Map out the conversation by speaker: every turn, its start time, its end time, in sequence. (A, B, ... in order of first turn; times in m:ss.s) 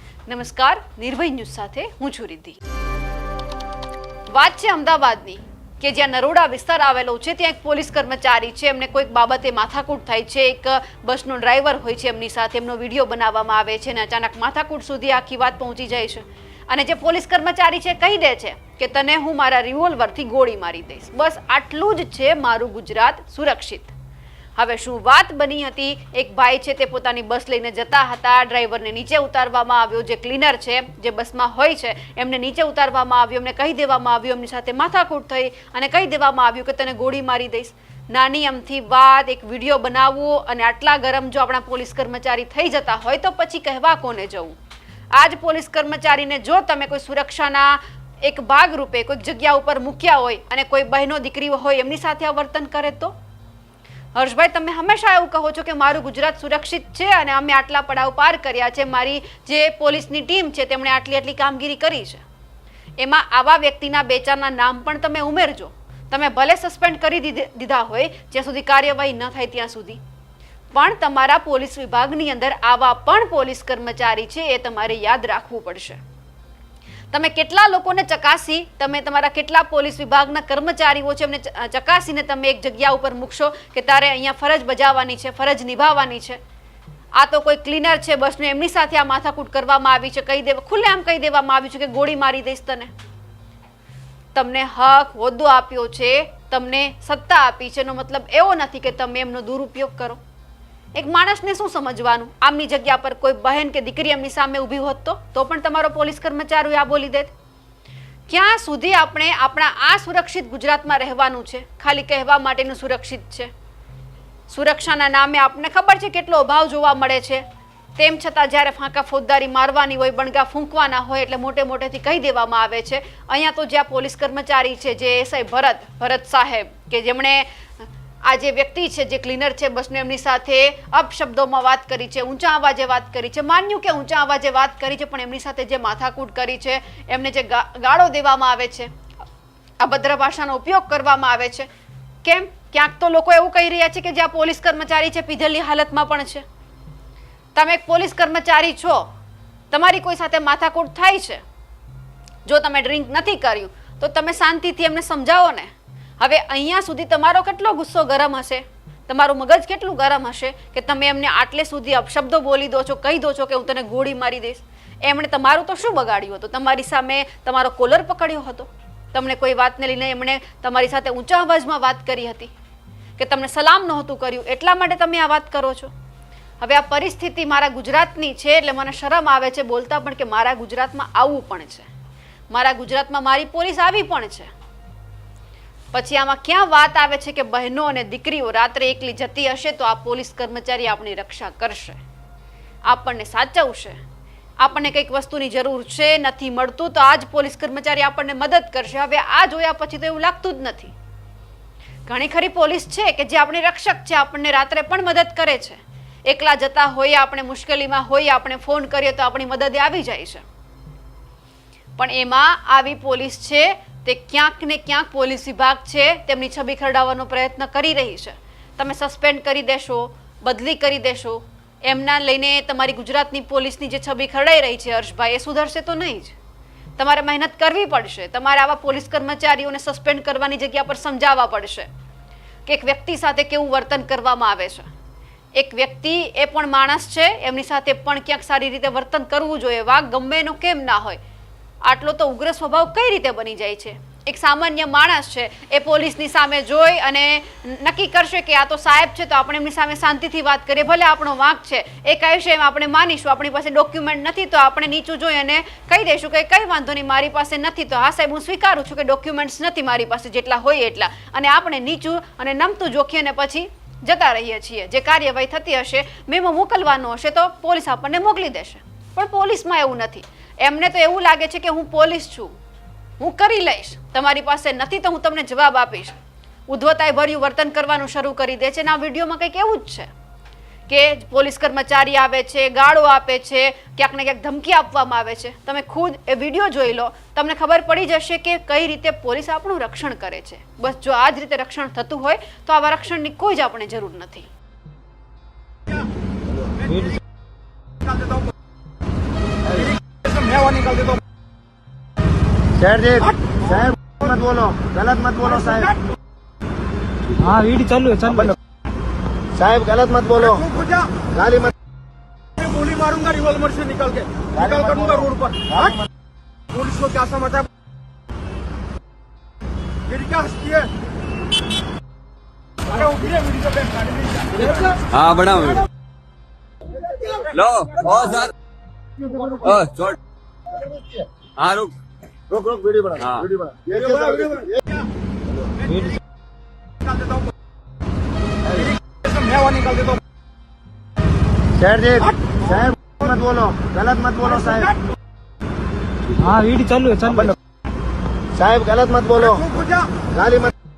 0:00.3-0:02.6 A
0:04.3-0:23.9 A
0:24.6-0:44.6 A
0:45.1-0:53.1 A
0:54.1-1:02.2 A
1:03.0-1:10.0 A
1:10.7-1:16.0 A
1:17.1-1:26.4 A
1:27.2-1:32.9 A
1:34.3-1:40.2 A
1:40.9-1:47.3 A
1:48.3-1:53.5 A
1:54.5-1:57.4 A
1:58.0-2:18.9 A
2:19.8-2:21.7 A
2:22.2-2:26.4 A
2:27.5-2:29.1 A
2:29.7-2:31.4 A
2:32.4-2:52.5 A
2:53.2-2:55.9 A
2:56.6-3:01.9 A
3:02.5-3:04.5 A
3:05.9-3:12.0 A
3:12.9-3:14.0 A
3:14.6-3:20.9 A
3:22.1-3:30.4 A
3:32.0-3:46.3 A
3:47.0-3:51.9 A
3:52.6-3:54.9 A
3:55.5-4:01.2 A
4:01.8-4:32.5 A
4:33.2-4:36.2 A
4:36.7-4:40.1 A
4:40.9-4:54.5 A
4:56.9-4:57.2 B
4:58.1-4:58.4 C
4:59.8-5:01.2 C
5:02.8-5:05.9 D
5:07.4-5:08.5 B
5:09.5-5:10.6 D
5:10.5-5:11.3 C
5:11.3-5:11.7 D
5:12.6-5:15.9 C
5:14.6-5:15.1 D
5:16.7-5:17.7 C
5:20.1-5:20.9 C
5:22.8-5:25.0 C
5:25.1-5:25.9 E
5:27.3-5:28.5 E
5:29.6-5:30.2 E
5:31.6-5:31.9 E
5:32.5-5:34.4 D
5:33.2-5:33.5 E
5:34.0-5:34.6 C
5:35.9-5:36.2 B
5:37.0-5:37.4 C
5:38.8-5:40.2 C
5:41.8-5:44.9 D
5:46.4-5:47.5 B
5:48.5-5:49.6 D
5:49.5-5:50.2 C
5:50.2-5:50.7 D